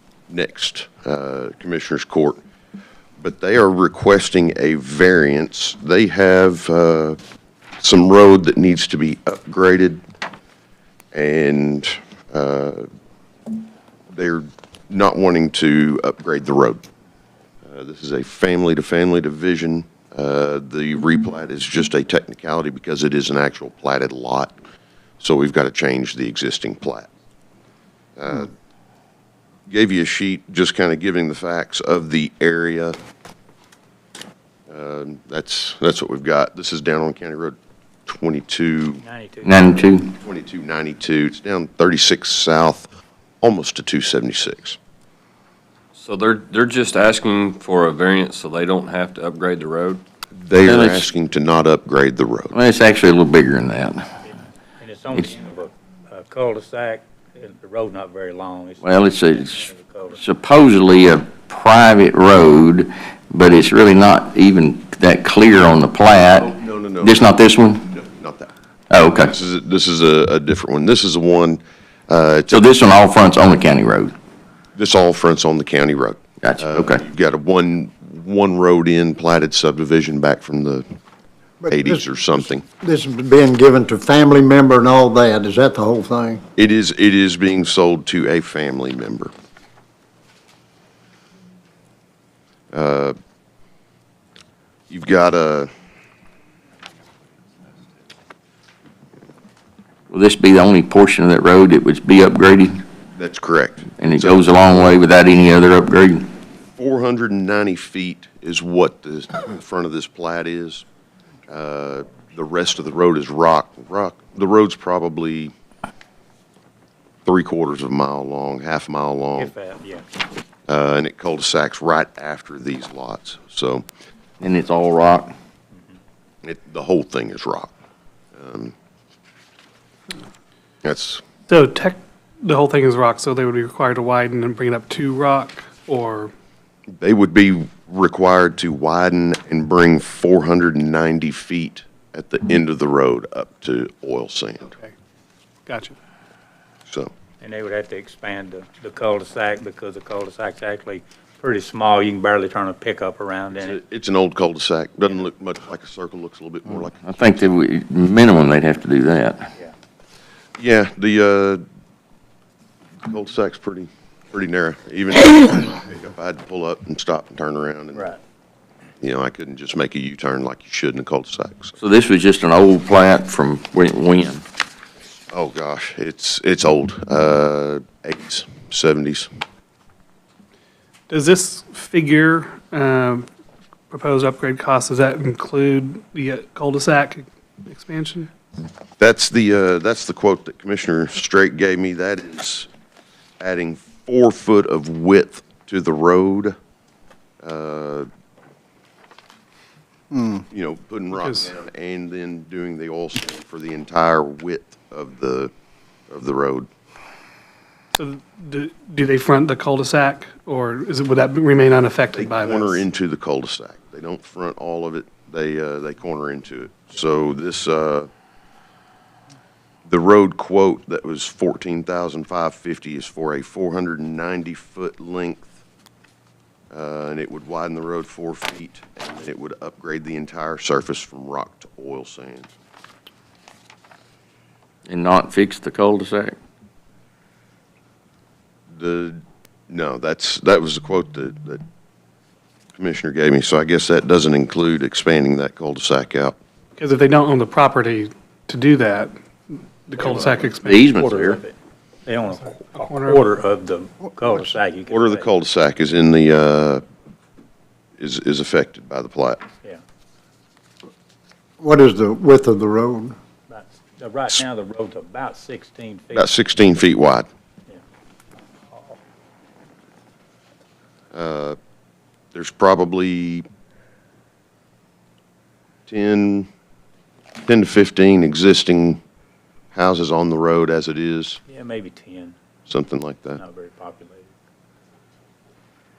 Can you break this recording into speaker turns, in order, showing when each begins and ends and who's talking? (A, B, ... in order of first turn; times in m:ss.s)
0:00.3-0:02.4 A
0:03.2-0:07.2 A
0:07.8-0:10.0 A
0:11.1-0:12.8 A
0:14.1-0:16.8 A
0:17.6-0:24.5 A
0:25.2-0:27.1 A
0:28.2-0:28.5 A
0:29.7-0:33.0 A
0:34.7-0:39.0 A
0:39.0-0:39.9 B
0:39.4-0:40.1 C
0:40.2-0:42.9 A
0:43.4-0:44.8 A
0:45.9-0:50.0 D
0:50.3-0:52.6 A
0:50.6-0:51.1 C
0:52.5-0:54.1 C
0:54.8-1:00.2 B
0:58.8-1:07.8 C
1:06.3-1:08.5 A
1:08.9-1:09.3 C
1:09.2-1:12.7 A
1:12.5-1:14.1 C
1:14.7-1:20.8 A
1:16.4-1:17.0 C
1:21.6-1:22.0 E
1:21.7-1:22.6 A
1:22.8-1:26.4 E
1:26.6-1:29.3 A
1:32.7-1:33.2 A
1:34.9-1:35.7 A
1:40.1-1:42.8 C
1:43.2-1:44.9 A
1:44.0-1:46.2 C
1:46.8-1:50.8 A
1:51.5-1:55.5 A
1:57.2-1:59.5 A
1:59.4-2:00.1 B
2:00.7-2:03.8 A
2:04.4-2:05.3 C
2:06.4-2:07.7 A
2:08.4-2:08.7 A
2:10.8-2:11.2 A
2:11.5-2:16.3 F
2:17.0-2:24.7 A
2:25.7-2:25.9 F
2:27.4-2:33.8 B
2:33.5-2:37.2 A
2:37.0-2:39.5 C
2:40.6-2:41.6 A
2:43.0-2:48.1 A
2:49.0-2:51.8 A
2:51.8-2:54.4 C
2:55.3-2:59.3 A
3:01.1-3:03.3 F
3:03.9-3:08.3 F
3:09.0-3:12.7 A
3:13.4-3:16.5 A
3:17.4-3:18.1 A
3:20.1-3:20.4 E
3:20.5-3:25.5 A
3:21.2-3:21.5 F
3:26.1-3:26.7 A
3:28.0-3:32.8 F
3:32.1-3:38.1 A
3:39.9-3:45.5 A
3:46.7-3:52.5 A
3:54.9-3:56.4 C
3:58.7-4:01.6 A
4:02.8-4:06.4 A
4:06.8-4:10.8 F
4:10.0-4:11.5 B
4:10.6-4:11.4 C
4:12.0-4:15.3 B
4:12.7-4:13.2 F
4:14.9-4:16.8 A
4:18.0-4:19.4 A
4:21.6-4:23.2 E
4:23.5-4:26.3 B
4:26.1-4:27.3 A
4:28.7-4:29.0 B
4:31.1-4:31.6 A
4:32.3-4:33.4 A
4:35.9-4:36.5 A
4:37.4-4:39.0 A
4:39.7-4:41.4 A
4:41.5-4:42.4 B
4:42.7-4:43.4 A
4:43.4-4:44.3 B